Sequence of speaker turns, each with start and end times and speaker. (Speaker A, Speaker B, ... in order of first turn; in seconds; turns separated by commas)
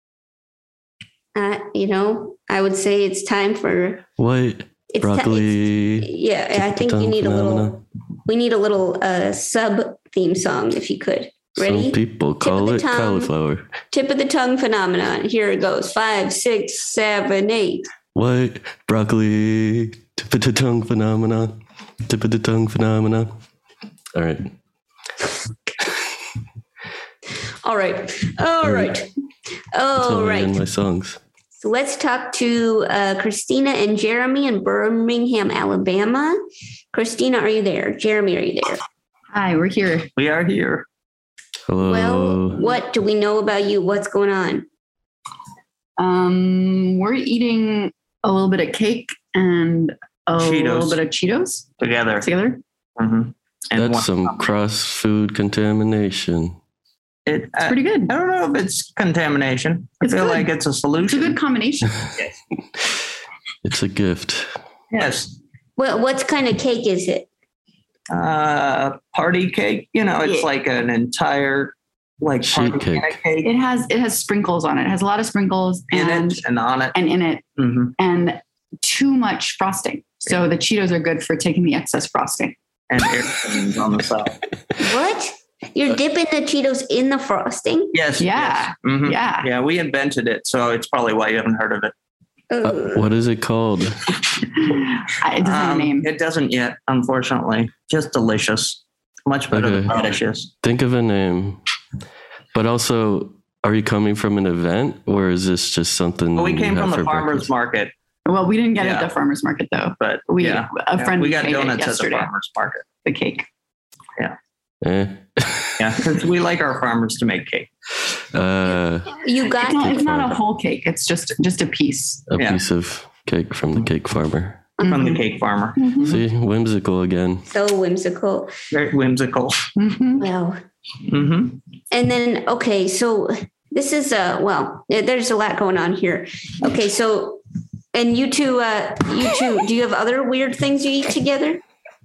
Speaker A: 1.4-4.0, Speaker B: 4.2-7.8, Speaker A: 4.9-13.3, Speaker B: 11.6-13.7, Speaker A: 13.9-17.9, Speaker B: 18.1-23.3, Speaker B: 24.1-24.5, Speaker A: 27.6-29.1, Speaker B: 28.6-28.9, Speaker A: 29.8-30.6, Speaker B: 30.0-31.2, Speaker A: 31.6-36.4, Speaker A: 36.9-38.8, Speaker C: 39.3-40.1, Speaker D: 40.2-40.9, Speaker B: 41.7-42.6, Speaker A: 41.8-44.7, Speaker C: 46.0-52.6, Speaker D: 50.4-51.0, Speaker D: 51.8-52.3, Speaker D: 53.0-54.5, Speaker B: 53.8-56.6, Speaker D: 57.3-61.4, Speaker C: 57.6-58.1, Speaker C: 60.0-60.5, Speaker C: 61.0-61.9, Speaker B: 63.6-64.5, Speaker D: 64.9-65.4, Speaker A: 65.8-67.3, Speaker D: 68.1-73.5, Speaker B: 72.4-73.1, Speaker C: 73.4-76.4, Speaker D: 75.9-77.0, Speaker C: 76.9-77.5, Speaker D: 77.6-78.0, Speaker C: 78.0-82.6, Speaker D: 82.9-84.4, Speaker A: 84.8-87.9, Speaker D: 87.9-91.9, Speaker C: 88.2-89.5, Speaker A: 92.5-93.0, Speaker B: 92.6-94.0, Speaker C: 94.8-96.1, Speaker D: 95.4-100.5, Speaker B: 99.5-100.1, Speaker B: 100.6-101.6, Speaker B: 102.5-107.5, Speaker D: 106.4-107.9, Speaker C: 108.3-112.3, Speaker D: 108.8-109.1, Speaker D: 110.0-112.9, Speaker C: 113.0-113.5, Speaker B: 114.8-116.1, Speaker D: 115.8-117.7, Speaker B: 118.3-119.1, Speaker A: 119.2-120.1, Speaker C: 119.6-122.3, Speaker B: 119.9-120.4, Speaker B: 122.3-124.7, Speaker D: 122.4-122.6, Speaker A: 124.8-125.2, Speaker D: 124.9-126.0, Speaker C: 125.8-126.2, Speaker B: 126.0-127.5, Speaker A: 127.5-128.5, Speaker D: 128.7-129.7, Speaker C: 129.8-130.2, Speaker A: 130.2-130.6, Speaker D: 131.1-131.6, Speaker A: 131.9-137.4, Speaker A: 137.9-141.6